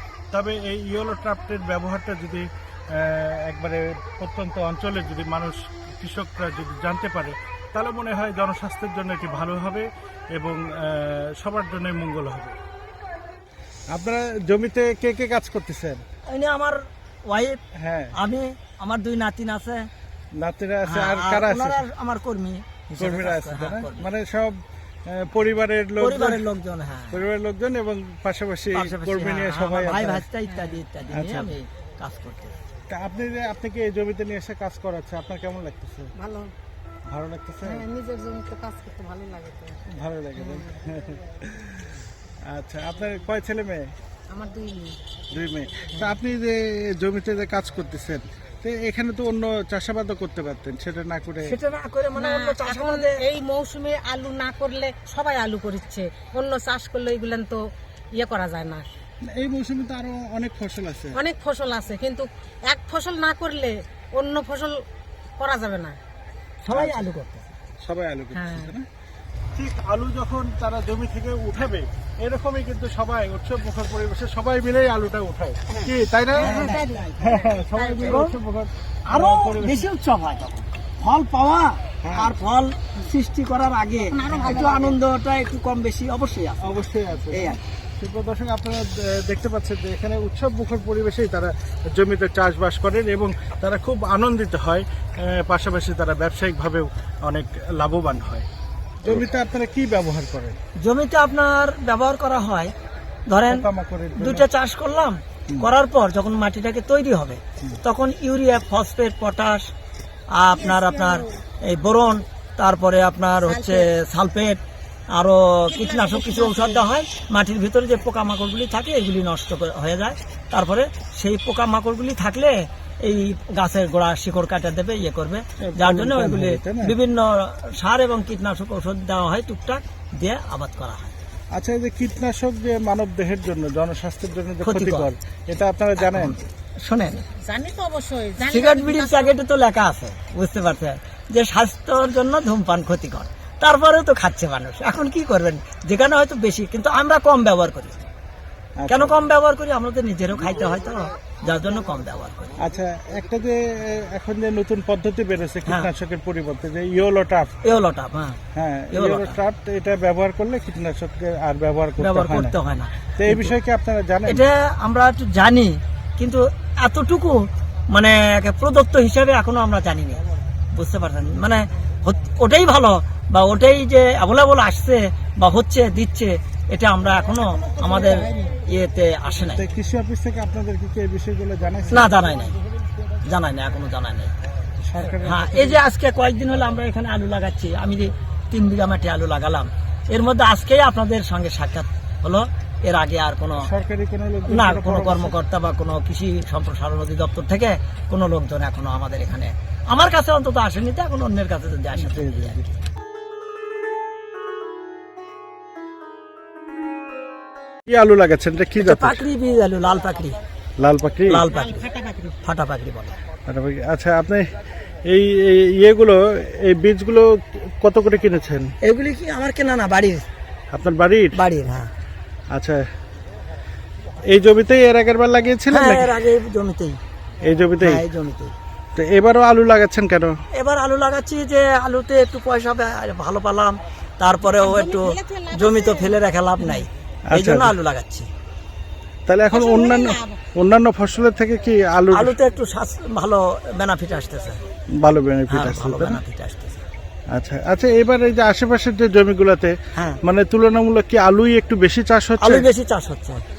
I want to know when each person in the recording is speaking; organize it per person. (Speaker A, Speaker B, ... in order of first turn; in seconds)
Speaker A: 0.3-12.6, 13.9-16.0, 17.8-18.1, 20.3-21.8, 23.0-26.4, 27.1-30.3, 31.1-31.5, 32.9-36.1, 37.1-37.8, 39.9-41.9, 42.5-43.9, 45.3-51.5, 59.2-61.2, 66.7-67.0, 67.8-68.9, 69.5-76.5, 77.2-79.8, 82.0-82.3, 86.6-98.5, 99.0-100.6, 103.5-104.5, 125.6-127.0, 131.5-136.4, 148.8-149.2, 152.6-157.5, 158.5-162.6, 163.2-164.4, 179.5-182.2, 184.8-185.8, 193.6-195.3, 202.0-202.6, 207.9-209.2, 210.8-211.4, 213.5-214.5, 215.1-218.7, 220.7-221.3, 222.5-222.9, 224.3-226.1, 227.5-228.0, 228.9-230.4, 237.3-237.8, 239.3-242.4, 244.9-246.2, 247.3-252.7
Speaker B: 16.3-17.6, 18.2-19.9, 20.9-24.1, 26.0-27.2, 28.7-32.6, 51.4-53.2, 66.7-67.5, 76.4-77.2, 78.0-78.3, 79.1-86.8, 87.3-87.6, 100.8-102.7, 103.3-109.7, 110.4-114.6, 115.1-131.1, 134.6-135.1, 136.0-137.2, 138.4-148.1, 148.9-152.6, 157.6-158.4, 158.9-159.4, 162.0-163.5, 164.3-170.2, 170.7-179.6, 181.9-182.6, 183.2-184.3, 185.1-193.7, 194.5-202.6, 208.8-210.4, 211.3-211.9, 212.4-213.2, 218.8-220.3, 221.4-221.9, 225.7-227.0, 227.8-228.5, 230.5-238.3, 242.1-244.6, 245.5-246.8, 250.0-250.2, 252.4-253.4
Speaker C: 30.5-30.8, 36.2-36.5, 37.6-39.8, 40.4-40.7, 44.3-45.0, 52.1-57.6, 58.2-58.9, 61.1-64.8, 65.4-66.0, 68.3-68.7, 76.4-78.3, 84.1-84.8, 110.6-111.2, 113.5-113.8, 115.8-116.8, 137.2-139.4, 211.7-212.3, 234.5-236.2, 239.5-240.4